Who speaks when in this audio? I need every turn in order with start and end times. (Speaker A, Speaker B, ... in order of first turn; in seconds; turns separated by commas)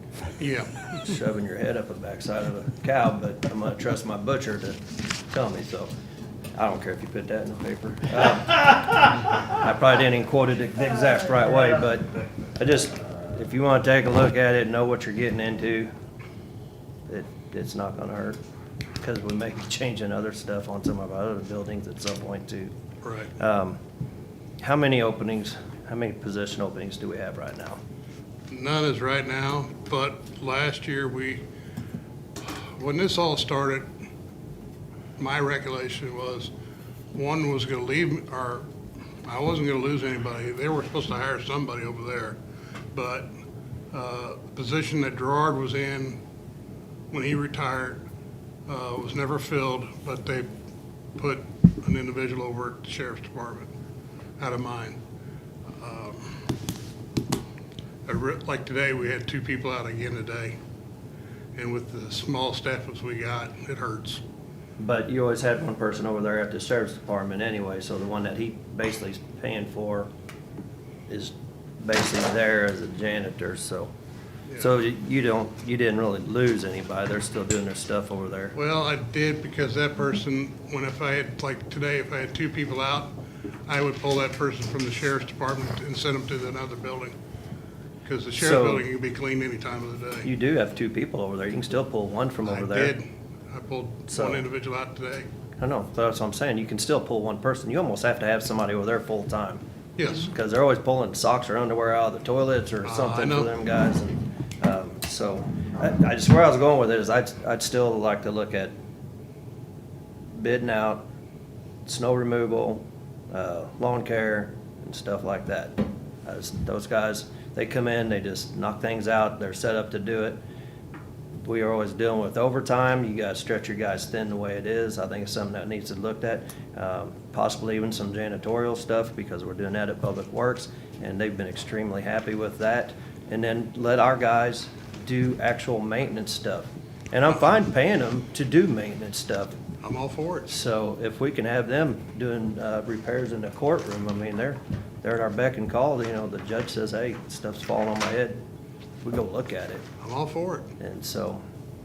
Speaker A: 0.4-1.1, Speaker B: 1.0-5.9, Speaker B: 6.5-15.9, Speaker B: 17.1-18.4, Speaker B: 19.0-22.7, Speaker A: 23.0-23.3, Speaker B: 23.4-23.8, Speaker B: 24.6-27.8, Speaker A: 28.5-31.4, Speaker A: 32.4-33.9, Speaker A: 35.2-36.5, Speaker A: 37.1-38.7, Speaker A: 39.2-42.4, Speaker A: 42.9-43.3, Speaker A: 43.9-46.2, Speaker A: 47.1-48.0, Speaker A: 48.7-50.5, Speaker A: 51.2-53.7, Speaker A: 54.4-55.0, Speaker A: 55.7-56.3, Speaker A: 58.1-60.6, Speaker A: 61.6-64.2, Speaker B: 64.8-70.1, Speaker B: 71.1-73.9, Speaker B: 74.6-78.6, Speaker A: 78.5-83.1, Speaker A: 83.7-87.2, Speaker A: 88.0-90.3, Speaker B: 88.4-88.9, Speaker B: 90.2-93.0, Speaker A: 92.5-95.3, Speaker B: 94.1-94.5, Speaker B: 95.6-108.8, Speaker A: 100.0-100.3, Speaker A: 102.8-103.5, Speaker B: 110.3-111.0, Speaker B: 111.9-120.4, Speaker B: 121.4-139.6, Speaker A: 139.8-140.5, Speaker B: 140.5-148.4, Speaker B: 149.0-149.9, Speaker A: 150.0-150.7, Speaker B: 150.8-151.4